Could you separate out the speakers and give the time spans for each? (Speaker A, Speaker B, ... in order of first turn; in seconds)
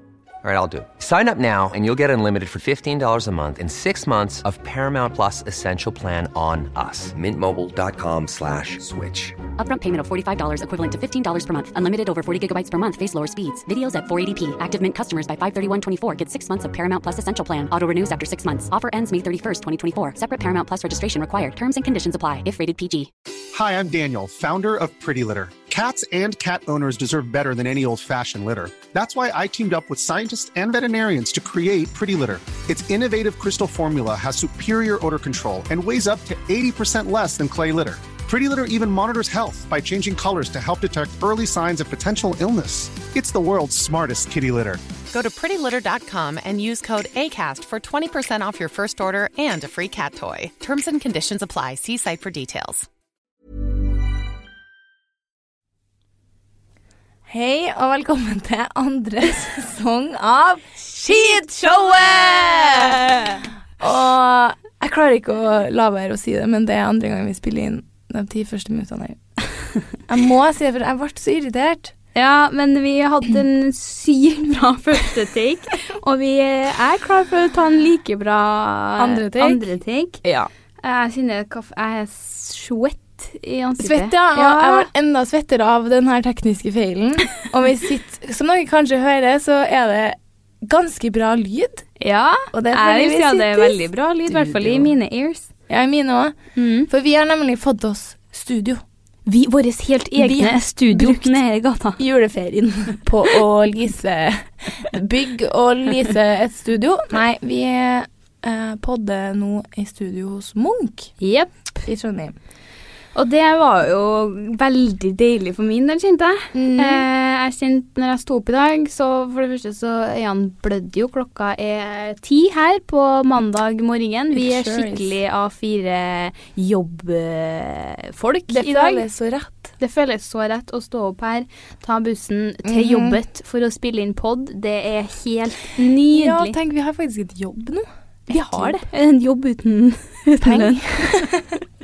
Speaker A: 0.4-9.4
Speaker B: 9.6-23.1
Speaker C: 23.5-44.8
Speaker D: 45.1-52.9
Speaker E: 57.3-63.1, 63.8-69.2, 70.1-71.9, 79.0-79.6, 80.2-80.5, 83.8-91.8, 92.5-94.9, 95.7-96.4, 96.9-98.8, 100.2-101.4, 102.0-111.1, 111.8-112.3, 116.5-117.1, 124.3-125.2, 128.5-129.7, 132.6-133.2, 136.1-138.8, 140.4-141.6
Speaker F: 72.1-80.2, 80.8-84.9, 92.0-95.5, 96.5-96.9, 99.2-102.0, 111.2-111.5, 113.1-129.1, 129.8-136.6, 138.3-141.3